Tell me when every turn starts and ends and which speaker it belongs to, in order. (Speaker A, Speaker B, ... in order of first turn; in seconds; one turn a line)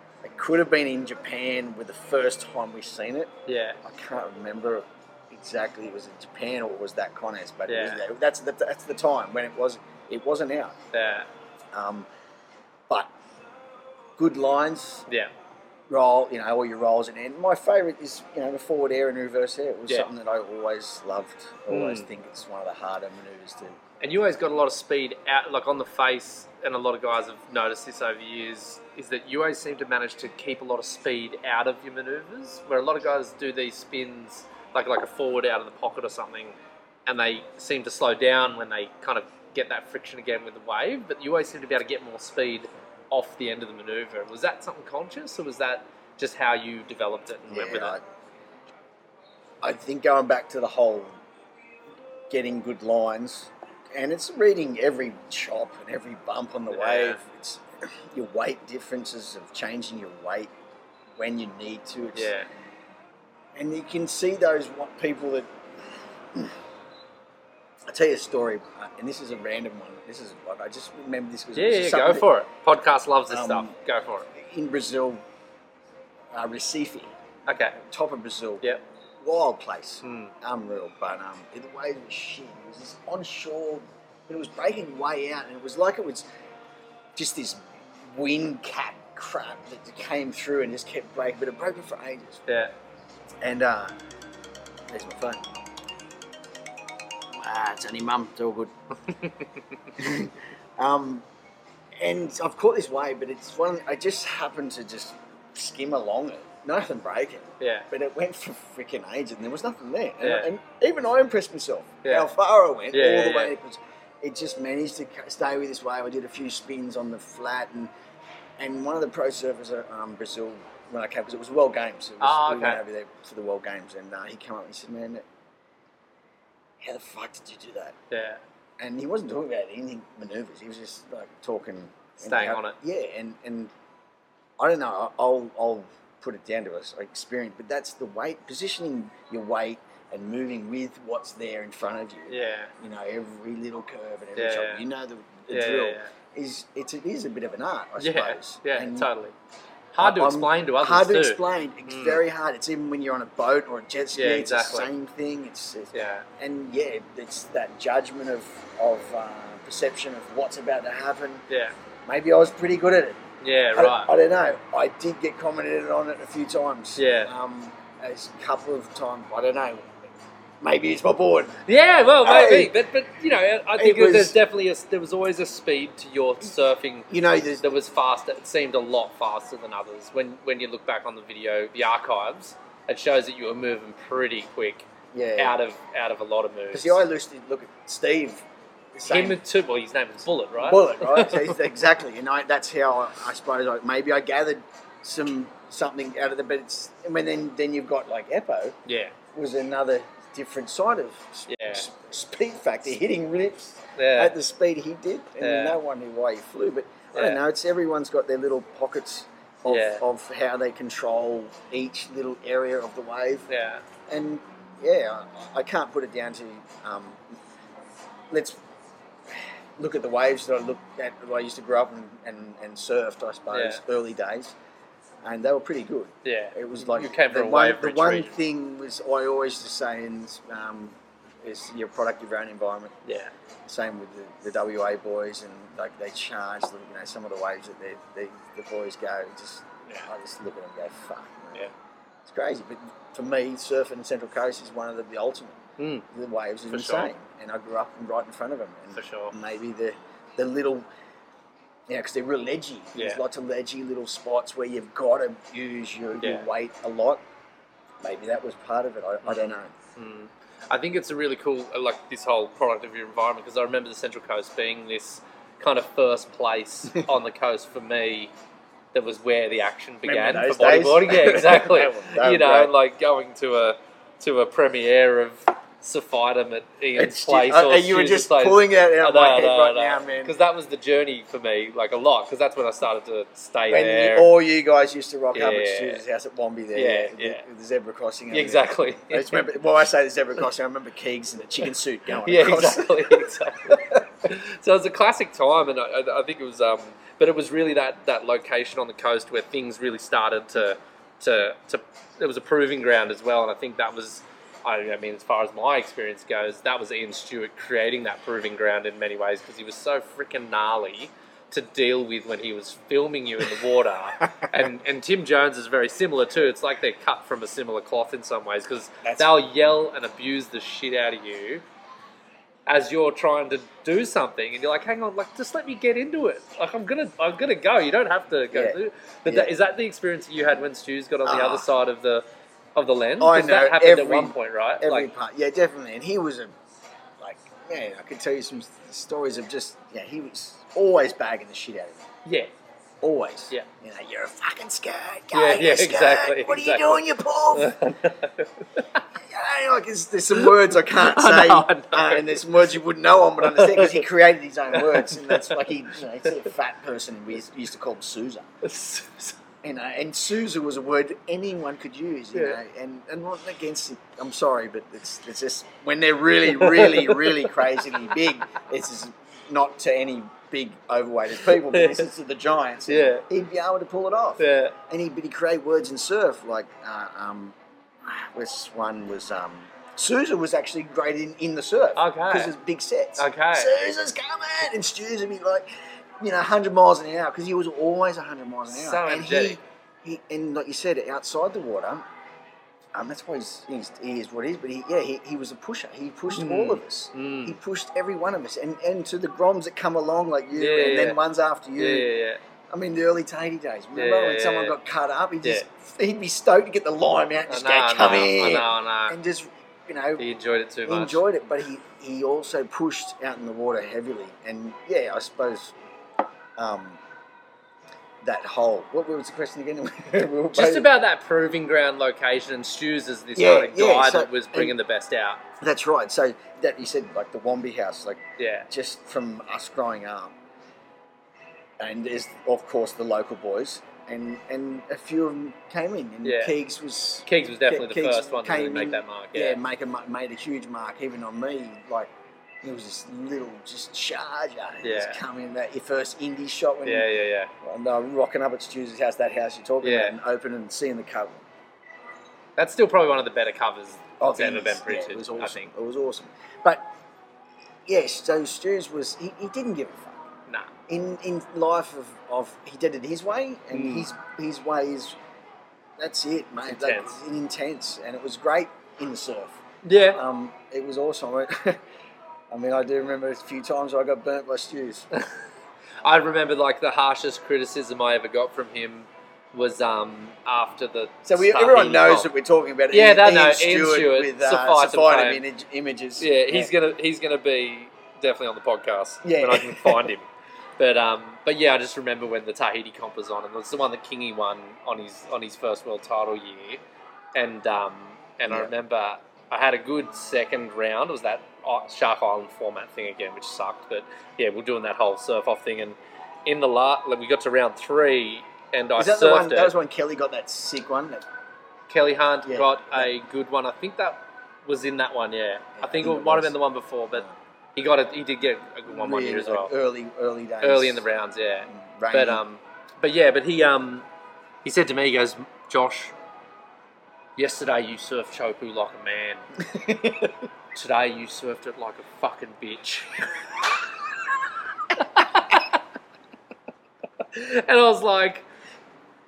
Speaker A: 0.2-3.3
Speaker B: 3.5-3.8
Speaker A: 3.8-10.8
Speaker B: 7.7-8.0
Speaker B: 10.9-11.3
Speaker A: 11.7-12.1
Speaker A: 14.2-15.0
Speaker A: 15.9-23.8
Speaker B: 21.7-22.1
Speaker B: 24.0-36.5
Speaker B: 37.0-48.0
Speaker A: 47.5-48.0
Speaker A: 49.6-51.2
Speaker A: 52.3-60.5
Speaker B: 56.7-57.2
Speaker A: 61.2-62.3
Speaker B: 62.1-62.5
Speaker A: 63.5-65.5
Speaker A: 67.9-72.3
Speaker B: 71.5-74.2
Speaker A: 73.3-73.7
Speaker A: 74.3-75.2
Speaker A: 76.3-77.1
Speaker B: 77.5-77.8
Speaker A: 77.7-78.6
Speaker A: 79.2-86.2
Speaker B: 80.0-80.3
Speaker A: 87.2-92.4
Speaker B: 92.5-92.7
Speaker A: 93.4-93.9
Speaker A: 94.9-95.4
Speaker A: 97.3-98.7
Speaker A: 100.0-101.2
Speaker A: 102.0-117.9
Speaker B: 107.6-107.9
Speaker B: 110.2-110.5
Speaker B: 112.0-112.3
Speaker B: 112.9-113.5
Speaker A: 118.6-125.2
Speaker B: 122.2-122.8
Speaker A: 126.8-128.0
Speaker B: 128.1-128.4
Speaker A: 128.8-133.7
Speaker B: 132.2-132.8
Speaker A: 134.6-149.1
Speaker B: 142.3-142.7
Speaker B: 144.3-144.8
Speaker B: 145.5-146.1
Speaker B: 148.0-149.3
Speaker B: 149.9-152.2
Speaker A: 150.0-161.4
Speaker B: 154.1-154.9
Speaker B: 155.9-156.2
Speaker B: 161.5-161.7
Speaker A: 162.1-163.2
Speaker B: 163.4-164.1
Speaker A: 163.7-170.1
Speaker B: 167.0-167.3
Speaker A: 170.6-171.6
Speaker B: 171.7-187.0
Speaker A: 172.2-172.8
Speaker A: 173.8-174.4
Speaker A: 177.1-177.7
Speaker A: 185.1-185.6
Speaker A: 186.7-189.4
Speaker B: 189.1-191.6
Speaker A: 190.6-198.8
Speaker B: 198.8-199.1
Speaker A: 199.3-213.5
Speaker B: 201.5-201.8
Speaker B: 204.0-204.3
Speaker B: 205.4-205.8
Speaker B: 207.1-207.4
Speaker B: 209.7-210.0
Speaker B: 213.5-213.8
Speaker A: 214.1-217.2
Speaker A: 218.3-218.6
Speaker A: 219.3-224.5
Speaker B: 223.5-223.8
Speaker A: 225.2-233.0
Speaker B: 226.2-228.4
Speaker B: 233.0-233.3
Speaker A: 233.7-241.7
Speaker A: 242.2-250.8
Speaker B: 245.8-246.0
Speaker B: 246.7-247.1
Speaker B: 248.9-249.3
Speaker A: 251.9-257.2
Speaker B: 252.9-253.2
Speaker B: 256.2-256.5
Speaker A: 258.0-259.7
Speaker B: 259.2-268.3
Speaker B: 268.9-284.3
Speaker A: 270.0-272.7
Speaker A: 276.9-280.3
Speaker A: 283.7-293.8
Speaker B: 285.3-286.0
Speaker B: 286.7-287.4
Speaker B: 288.3-289.5
Speaker B: 292.2-321.6
Speaker A: 319.0-319.3
Speaker B: 322.7-335.1
Speaker A: 328.5-329.5
Speaker A: 331.2-331.6
Speaker A: 333.2-336.5
Speaker A: 337.2-342.1
Speaker B: 342.2-342.5
Speaker A: 343.0-348.0
Speaker B: 345.3-349.0
Speaker A: 349.2-358.5
Speaker B: 350.4-352.4
Speaker B: 353.4-354.1
Speaker B: 354.7-355.6
Speaker B: 358.6-359.4
Speaker A: 359.6-385.7
Speaker B: 366.5-367.5
Speaker B: 371.6-372.0
Speaker B: 372.9-373.2
Speaker B: 374.4-374.8
Speaker B: 381.9-382.5
Speaker B: 383.2-383.7
Speaker A: 386.2-392.0
Speaker B: 388.7-389.6
Speaker A: 392.9-402.1
Speaker B: 396.3-397.6
Speaker B: 400.5-401.2
Speaker B: 401.8-402.4
Speaker A: 402.7-410.2
Speaker B: 403.9-404.8
Speaker B: 407.5-409.2
Speaker B: 410.2-411.2
Speaker A: 410.9-415.7
Speaker A: 416.6-417.0
Speaker A: 418.2-420.9
Speaker B: 420.5-425.4
Speaker A: 423.4-424.7
Speaker A: 425.6-430.3
Speaker B: 428.4-428.7
Speaker A: 431.8-442.1
Speaker B: 436.2-436.5
Speaker B: 437.2-439.6
Speaker A: 442.6-447.1
Speaker B: 444.8-445.2
Speaker B: 446.8-447.5
Speaker A: 447.6-451.4
Speaker B: 449.8-450.1
Speaker B: 452.6-455.7
Speaker A: 454.2-456.9
Speaker A: 457.9-460.2
Speaker A: 460.9-465.2
Speaker B: 463.7-464.1
Speaker A: 466.0-469.6
Speaker B: 466.7-467.1
Speaker B: 469.8-470.2
Speaker A: 470.1-471.8
Speaker A: 472.5-475.1
Speaker B: 476.0-482.3
Speaker A: 481.2-486.7
Speaker B: 482.9-485.4
Speaker B: 486.2-490.3
Speaker A: 489.2-490.1
Speaker B: 490.8-496.8
Speaker B: 497.3-509.7
Speaker A: 509.0-511.2
Speaker B: 511.9-519.7
Speaker A: 512.5-513.1
Speaker A: 515.8-516.5
Speaker A: 518.9-521.0
Speaker B: 520.6-524.0
Speaker A: 521.7-522.4
Speaker B: 524.6-526.1
Speaker B: 527.4-529.4
Speaker A: 529.6-530.3
Speaker B: 530.7-533.4
Speaker B: 534.9-535.8
Speaker B: 537.3-538.4